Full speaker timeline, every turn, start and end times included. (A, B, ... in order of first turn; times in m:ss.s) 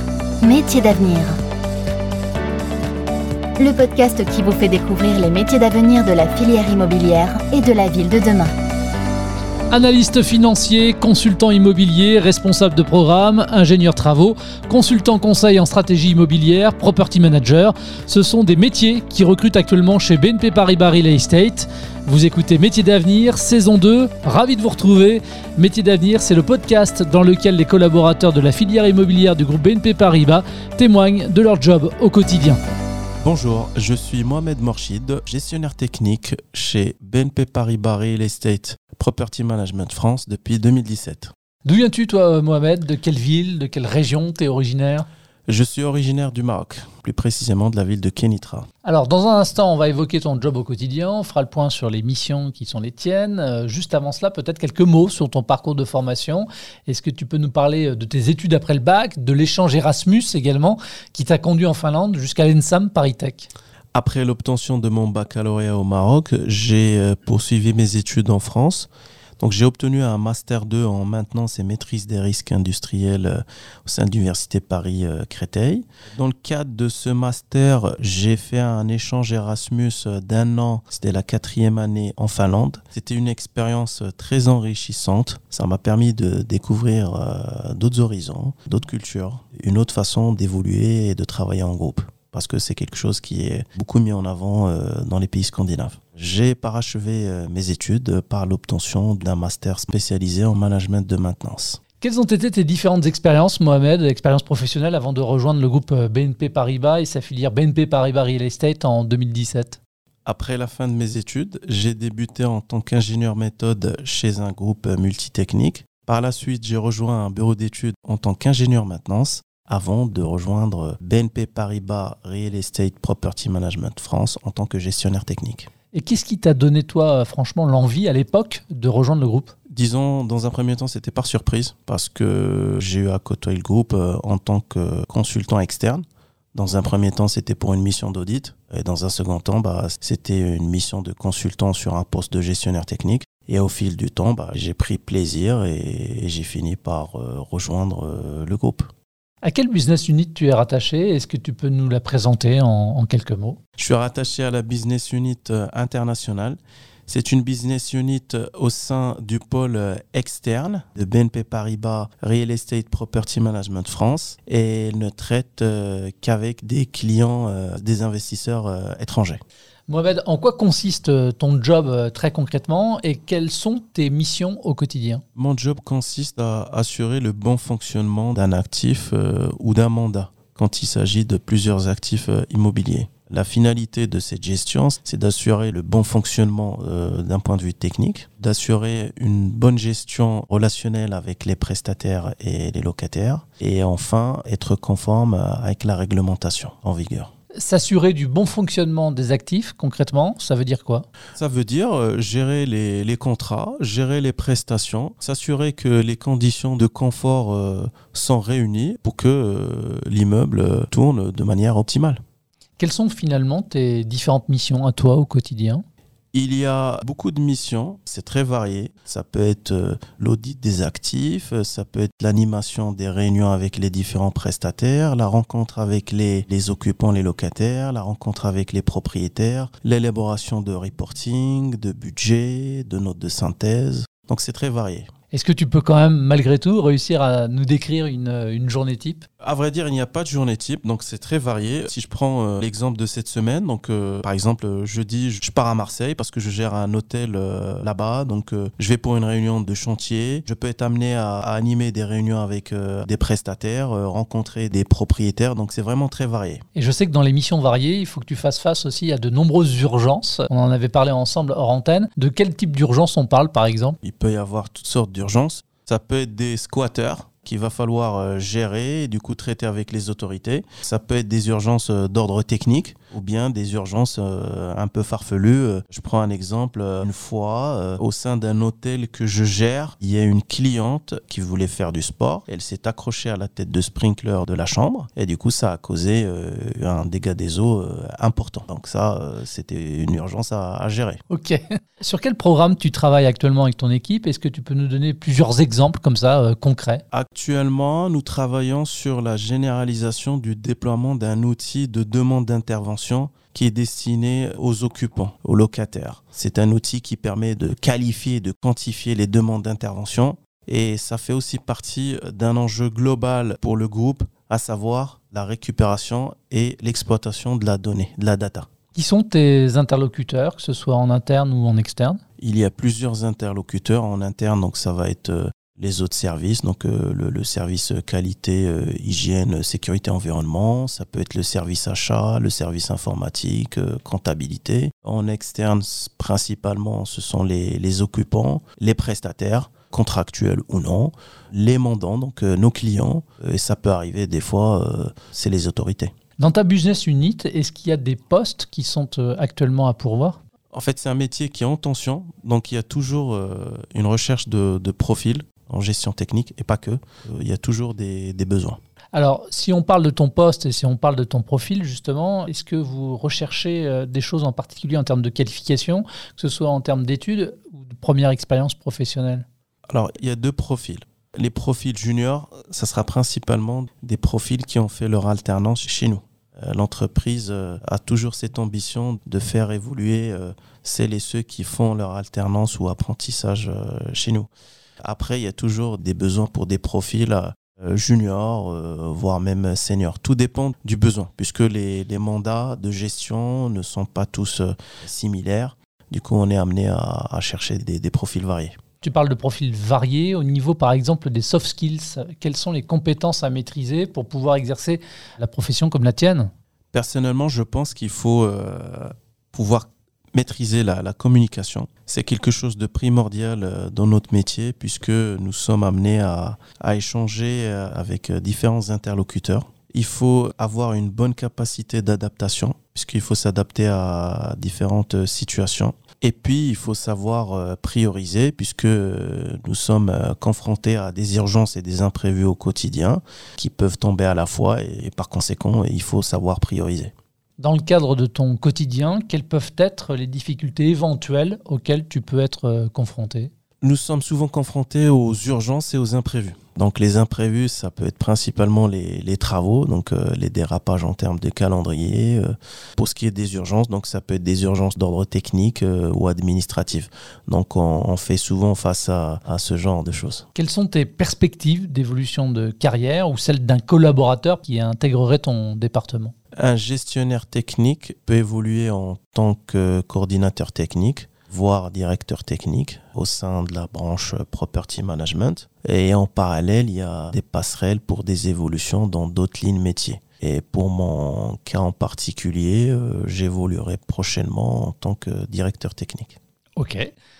0:00.4-0:01.4 A
0:03.6-0:08.5 A
0:09.7-0:32.6 B
0:33.2-0:41.3 C
0:41.6-0:45.1 B
0:45.5-0:48.7 C
0:48.8-1:03.5 B
1:03.9-1:41.8 C
1:42.0-1:49.8 B
1:50.2-2:05.7 C
2:05.9-2:09.5 B
2:09.7-2:16.0 C
2:16.5-2:28.9 C
2:29.4-2:33.6 B
2:33.8-2:49.4 C
2:49.9-2:55.2 B
2:55.4-3:17.3 C
3:17.6-3:21.0 B
3:21.4-3:32.2 C
3:32.8-3:35.8 B
3:36.3-3:55.1 C
3:55.3-3:59.2 B
3:59.4-4:16.6 C
4:16.7-4:24.0 B
4:24.0-4:51.2 C
4:51.3-4:57.0 B
4:57.1-5:18.7 C
5:18.9-5:22.2 B
5:22.4-5:46.1 C
5:46.4-5:50.4 B
5:50.7-5:58.8 C
5:59.1-6:09.4 B
6:09.9-6:24.5 C
6:25.0-6:38.8 C
6:39.0-6:46.5 B
6:46.9-7:17.1 C
7:17.6-7:23.5 B
7:23.8-7:40.4 C
7:40.5-7:46.3 B
7:46.6-8:06.4 C
8:06.8-8:07.1 B